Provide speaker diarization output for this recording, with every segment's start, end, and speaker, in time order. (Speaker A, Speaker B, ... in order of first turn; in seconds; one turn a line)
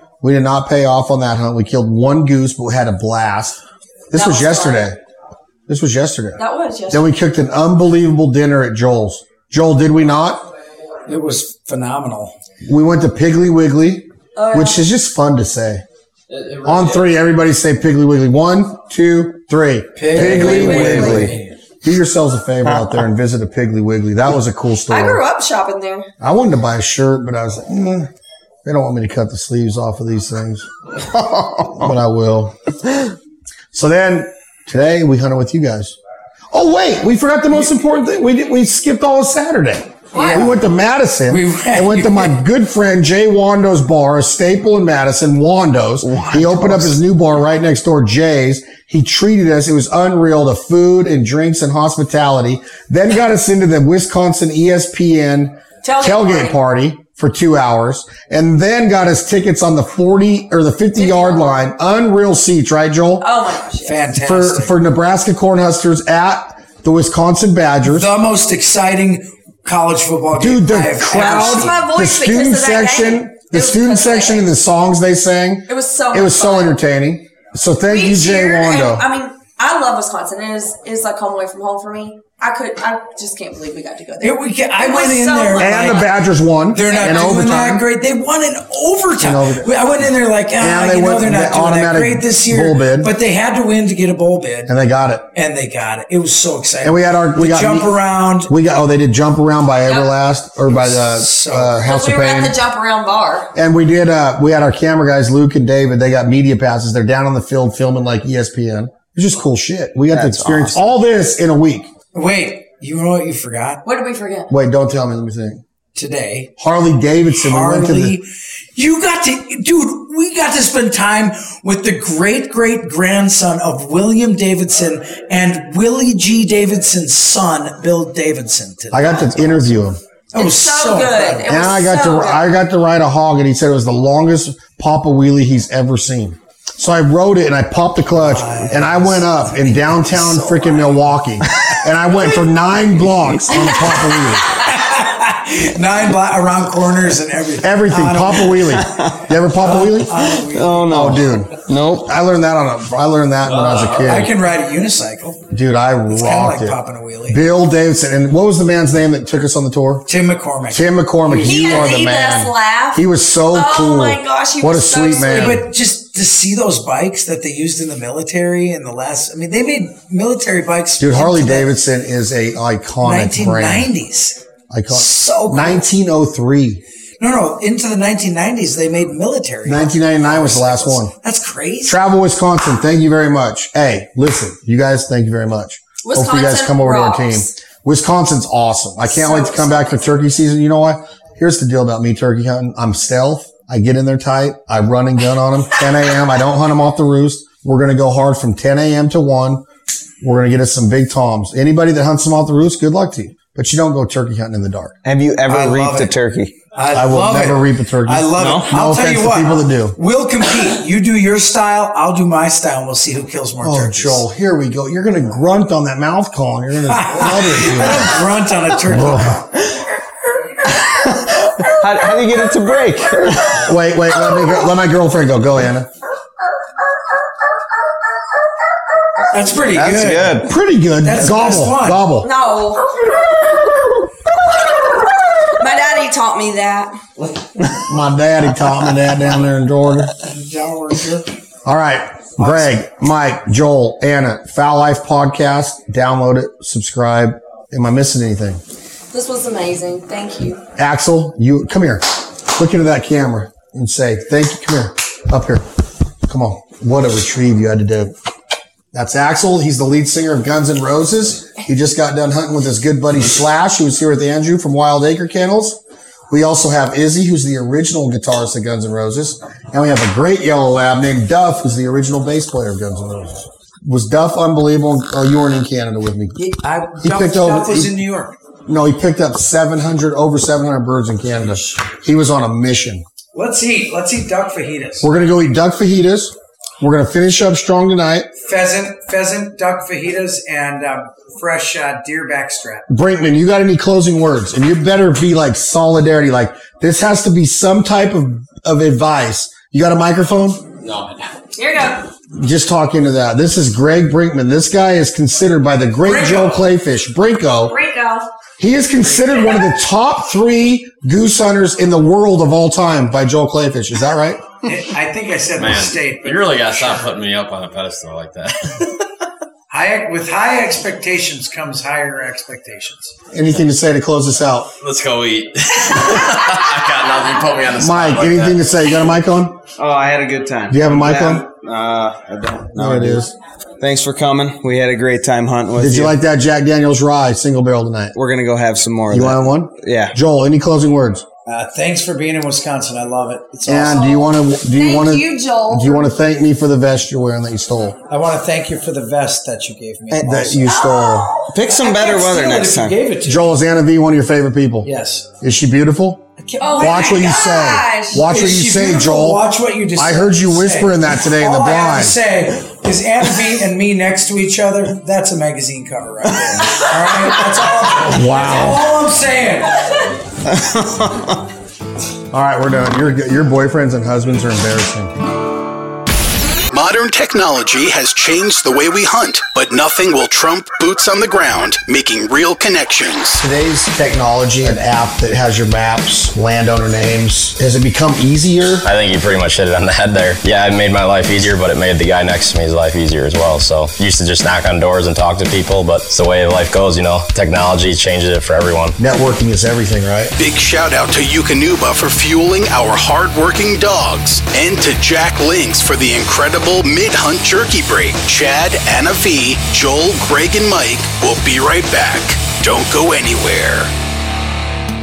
Speaker A: 0.2-5.0
Speaker B: 4.1-4.9
Speaker A: 5.7-10.5
Speaker B: 6.4-7.1
Speaker C: 11.1-12.3
Speaker A: 12.7-15.8
Speaker B: 14.4-14.8
Speaker D: 16.3-17.1
Speaker A: 16.6-25.2
Speaker C: 19.9-21.6
Speaker E: 20.2-21.3
Speaker B: 20.5-21.3
Speaker B: 24.9-26.1
Speaker A: 26.2-28.1
Speaker A: 28.6-30.7
Speaker E: 31.4-31.7
Speaker A: 31.7-32.6
Speaker A: 33.7-36.0
Speaker A: 36.5-63.3
Speaker B: 40.1-40.5
Speaker C: 40.1-40.6
Speaker C: 41.3-42.4
Speaker E: 46.2-46.9
Speaker B: 55.8-56.6
Speaker B: 61.0-61.6
Speaker B: 63.2-64.1
Speaker C: 63.8-64.8
Speaker A: 64.2-68.1
Speaker C: 67.8-71.8
Speaker A: 70.3-79.1
Speaker B: 71.1-74.5
Speaker B: 75.7-76.8
Speaker B: 77.9-86.2
Speaker C: 84.2-86.1
Speaker A: 85.6-87.8
Speaker C: 86.7-94.8
Speaker B: 86.8-87.4
Speaker A: 89.2-89.7
Speaker A: 90.6-93.1
Speaker A: 94.7-95.3
Speaker C: 95.3-98.5
Speaker A: 96.8-102.6
Speaker B: 99.9-100.2
Speaker C: 100.7-101.9
Speaker B: 101.8-103.5
Speaker A: 103.5-111.9
Speaker E: 110.1-110.8
Speaker C: 112.1-113.8
Speaker B: 113.8-114.5
Speaker A: 114.5-115.6
Speaker C: 116.0-116.5
Speaker A: 116.6-118.2
Speaker C: 117.3-129.8
Speaker A: 128.9-130.0
Speaker C: 130.3-131.5
Speaker B: 130.3-132.5
Speaker A: 131.5-144.6
Speaker C: 138.1-141.1
Speaker B: 143.5-144.2
Speaker C: 144.4-148.9
Speaker A: 147.6-150.3
Speaker E: 148.8-149.2
Speaker C: 149.6-151.2
Speaker E: 150.4-152.1
Speaker A: 150.8-154.3
Speaker D: 153.5-154.1
Speaker C: 153.6-155.4
Speaker A: 155.5-156.8
Speaker C: 156.1-157.5
Speaker A: 157.3-160.1
Speaker C: 160.1-162.0
Speaker A: 160.7-165.7
Speaker B: 161.4-165.6
Speaker C: 165.2-171.8
Speaker A: 171.0-173.9
Speaker C: 173.0-175.9
Speaker A: 174.7-176.8
Speaker C: 177.2-182.0
Speaker A: 179.7-181.1
Speaker A: 181.8-199.7
Speaker B: 186.0-187.5
Speaker B: 189.1-190.1
Speaker A: 200.2-204.9
Speaker E: 205.0-206.6
Speaker C: 205.5-206.1
Speaker C: 206.7-214.2
Speaker A: 206.9-210.0
Speaker E: 208.4-208.7
Speaker A: 213.6-218.2
Speaker C: 216.9-219.5
Speaker A: 218.9-219.4
Speaker E: 220.8-223.7
Speaker A: 223.6-225.9
Speaker C: 229.3-230.4
Speaker E: 229.7-230.5
Speaker A: 230.4-232.3
Speaker C: 231.0-232.1
Speaker B: 232.2-232.9
Speaker B: 235.6-237.0
Speaker A: 237.9-240.1
Speaker C: 240.2-241.3
Speaker A: 241.7-248.6
Speaker B: 249.1-250.6
Speaker A: 250.8-255.7
Speaker A: 256.3-258.1
Speaker A: 258.9-276.4
Speaker C: 276.4-278.4
Speaker A: 277.0-277.9
Speaker A: 278.7-283.0
Speaker C: 283.3-285.1
Speaker A: 285.0-288.3
Speaker C: 288.4-292.9
Speaker A: 292.9-300.7
Speaker D: 300.8-301.2
Speaker B: 301.6-302.1
Speaker A: 302.3-307.8
Speaker B: 307.6-308.3
Speaker A: 308.6-314.4
Speaker C: 314.6-316.8
Speaker D: 315.6-318.9
Speaker C: 319.7-323.2
Speaker A: 323.3-324.7
Speaker D: 324.8-328.8
Speaker A: 327.8-329.6
Speaker E: 329.8-333.2
Speaker A: 330.7-331.5
Speaker A: 332.8-333.3
Speaker E: 333.8-336.1
Speaker A: 335.8-338.1
Speaker E: 338.1-340.2
Speaker A: 339.1-341.2
Speaker C: 341.5-344.0
Speaker A: 343.7-348.0
Speaker B: 343.8-346.1
Speaker C: 348.1-350.6
Speaker E: 350.1-350.6
Speaker A: 350.2-351.4
Speaker B: 350.6-352.1
Speaker E: 351.5-353.0
Speaker C: 351.9-353.6
Speaker A: 353.2-354.9
Speaker C: 354.8-355.3
Speaker A: 355.4-356.3
Speaker C: 356.4-357.4
Speaker B: 356.6-358.3
Speaker A: 356.8-359.4
Speaker C: 358.1-369.8
Speaker A: 359.9-362.2
Speaker A: 368.1-368.9
Speaker E: 370.5-371.3
Speaker A: 372.3-375.1
Speaker F: 376.7-383.4
Speaker A: 383.4-388.9
Speaker D: 388.8-399.0
Speaker A: 399.0-400.3
Speaker F: 400.4-413.9